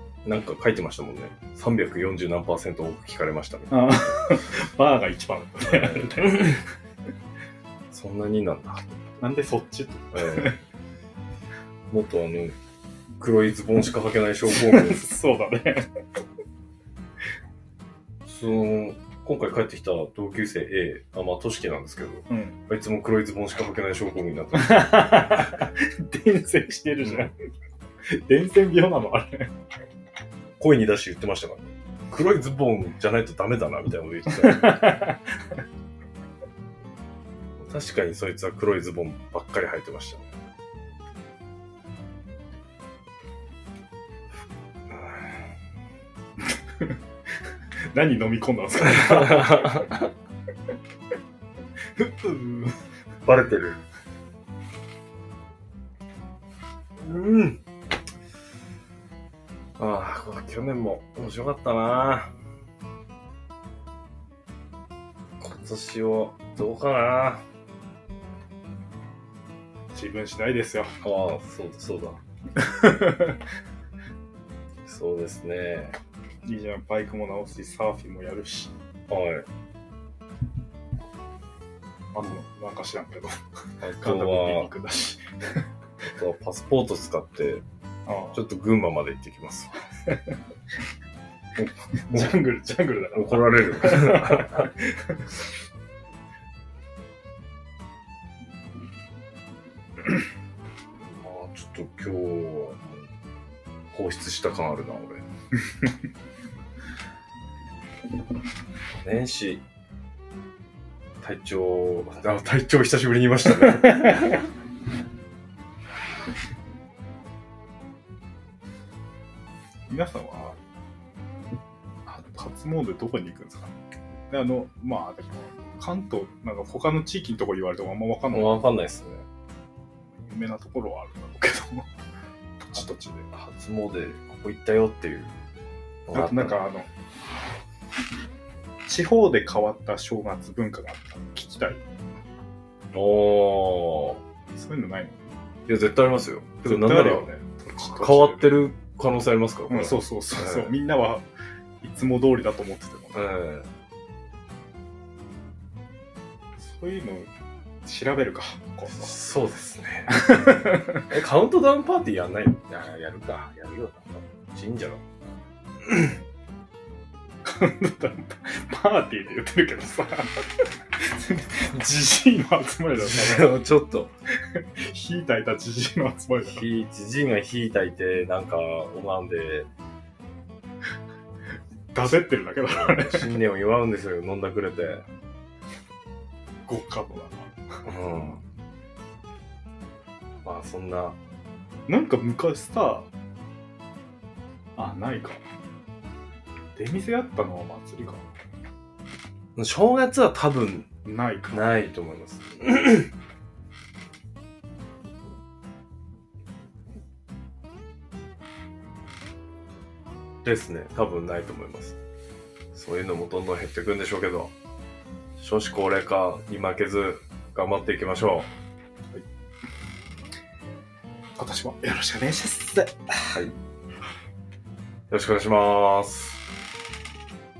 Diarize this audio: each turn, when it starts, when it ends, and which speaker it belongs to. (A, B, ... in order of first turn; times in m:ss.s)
0:00.2-0:04.1 A
0:03.7-0:06.6 B
0:05.6-0:06.6 A
0:07.9-0:08.9 A
0:09.2-0:10.6 B
0:10.1-0:10.6 A
0:11.9-0:12.6 A
0:13.2-0:15.0 A
0:14.5-0:15.9 B
0:18.2-0:25.5 A
0:22.3-0:22.6 B
0:24.5-0:27.3 B
0:27.0-0:27.3 A
0:28.1-0:29.5 B
0:30.6-0:35.0 A
0:34.3-0:35.2 B
0:37.6-0:40.3 A
0:44.9-0:45.4 A
0:47.9-0:50.0 B
0:48.8-0:50.1 A
0:52.0-0:52.7 B
0:53.2-0:53.8 A
0:57.0-0:57.6 A
0:59.8-1:02.3 A
1:05.4-1:07.4 A
1:09.9-1:10.9 B
1:11.0-1:12.2 A
1:12.6-1:13.4 B
1:14.8-1:16.0 A
1:16.4-1:18.7 B
1:19.1-1:19.4 A
1:22.1-1:23.4 B
1:23.8-1:24.7 A
1:24.0-1:25.6 B
1:26.2-1:27.6 A
1:28.1-1:28.4 B
1:28.3-1:29.7 A
1:32.0-1:35.2 B
1:32.1-1:32.4 A
1:33.1-1:34.7 A
1:41.0-1:43.1 A
1:43.9-1:45.2 A
1:49.0-1:49.6 A
1:51.2-1:54.4 A
1:59.9-2:00.6 B
2:02.0-2:03.7 B
2:04.3-2:08.6 B
2:08.3-2:09.2 A
2:10.2-2:11.9 B
2:12.6-2:13.3 B
2:13.3-2:15.3 A
2:16.1-2:16.6 A
2:16.1-2:16.9 B
2:18.8-2:21.8 B
2:22.9-2:24.2 A
2:24.5-2:25.2 B
2:25.7-2:27.2 A
2:26.6-2:28.5 B
2:28.0-2:30.7 A
2:29.7-2:31.2 B
2:31.8-2:33.3 B
2:33.1-2:33.7 A
2:36.6-2:37.3 B
2:37.8-2:39.2 B
2:38.9-2:45.2 A
2:40.1-2:41.0 B
2:45.8-2:46.1 A
2:47.4-2:50.4 B
2:51.0-2:53.6 B
2:52.9-2:54.1 A
2:54.5-2:56.6 B
2:56.4-2:59.7 A
3:01.9-3:03.4 B
3:02.7-3:05.0 A
3:06.7-3:07.6 B
3:07.8-3:08.4 A
3:10.4-3:11.2 A
3:11.9-3:13.1 B
3:14.8-3:15.4 B
3:16.8-3:18.3 B
3:19.6-3:20.9 A
3:21.0-3:21.7 B
3:21.5-3:23.1 A
3:30.4-3:32.0 A
3:32.7-3:34.5 A
3:35.4-3:38.5 A
3:41.4-3:43.4 B
3:45.1-3:46.4 A